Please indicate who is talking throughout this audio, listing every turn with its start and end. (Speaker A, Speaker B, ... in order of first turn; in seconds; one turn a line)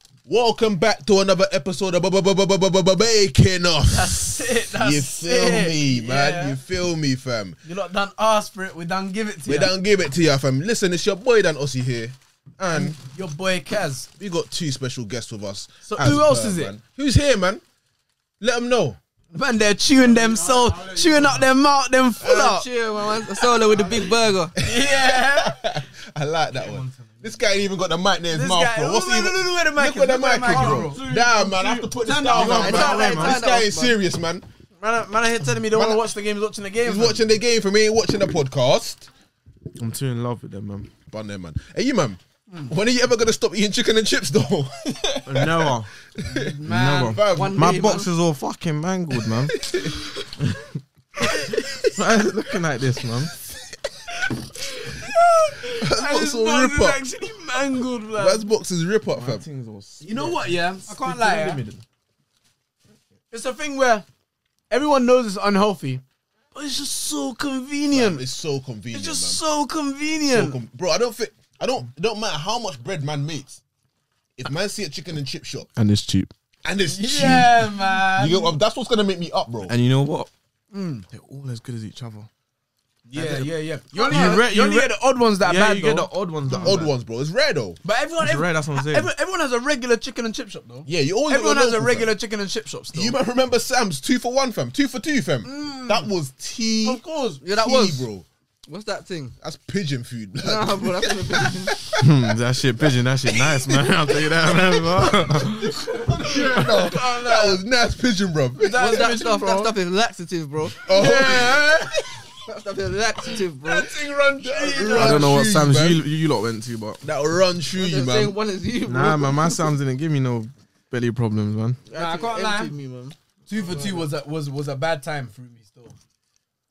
Speaker A: 0.2-7.6
Speaker B: 3.9-6.6
Speaker B: 7.6-9.7
Speaker A: 9.5-13.0
Speaker B: 12.7-14.1
Speaker A: 14.2-17.6
Speaker B: 15.9-16.7
Speaker A: 18.4-19.0
Speaker B: 19.3-22.7
Speaker C: 20.0-21.5
Speaker D: 22.2-24.5
Speaker C: 23.7-24.1
Speaker A: 24.5-34.4
Speaker B: 24.6-25.6
Speaker C: 26.5-27.5
Speaker B: 28.3-31.0
Speaker C: 30.5-33.4
Speaker B: 32.0-33.3
Speaker D: 32.6-33.9
Speaker B: 34.8-37.2
Speaker A: 35.7-36.1
Speaker A: 36.8-39.1
Speaker C: 39.8-40.9
Speaker A: 41.1-47.9
Speaker C: 45.2-45.9
Speaker B: 46.2-47.4
Speaker C: 46.6-49.6
Speaker D: 47.3-48.1
Speaker A: 49.6-50.0
Speaker C: 50.4-50.8
Speaker A: 51.5-51.9
Speaker C: 51.8-53.3
Speaker B: 54.6-58.5
Speaker A: 55.7-57.0
Speaker A: 58.1-59.4
Speaker C: 59.1-61.8
Speaker B: 60.0-61.6
Speaker B: 63.3-64.0
Speaker B: 64.7-66.0
Speaker B: 66.5-68.2
Speaker A: 67.9-69.4
Speaker B: 68.9-70.6
Speaker A: 70.3-73.6
Speaker A: 74.4-75.7
Speaker C: 75.8-76.3
Speaker A: 76.6-79.7
Speaker B: 76.9-78.5
Speaker C: 79.7-80.3
Speaker B: 80.7-81.0
Speaker C: 81.1-82.3
Speaker B: 83.1-86.8
Speaker C: 83.1-86.9
Speaker A: 86.5-87.8
Speaker B: 87.8-93.2
Speaker C: 88.2-89.1
Speaker A: 90.8-92.1
Speaker A: 92.9-97.0
Speaker B: 95.4-96.1
Speaker B: 96.8-97.4
Speaker D: 97.4-98.1
Speaker A: 97.5-98.2
Speaker D: 98.7-99.3
Speaker A: 99.4-104.2
Speaker D: 100.4-101.8
Speaker C: 102.0-106.6
Speaker A: 104.9-109.2
Speaker B: 105.9-107.6
Speaker B: 108.6-109.7
Speaker D: 108.8-110.8
Speaker A: 110.8-112.2
Speaker B: 110.9-112.0
Speaker D: 112.5-113.9
Speaker B: 113.6-115.4
Speaker A: 114.4-116.0
Speaker C: 114.9-117.0
Speaker A: 117.0-118.4
Speaker D: 117.7-119.7
Speaker C: 118.8-121.8
Speaker D: 121.9-124.1
Speaker B: 121.9-122.7
Speaker B: 123.5-126.0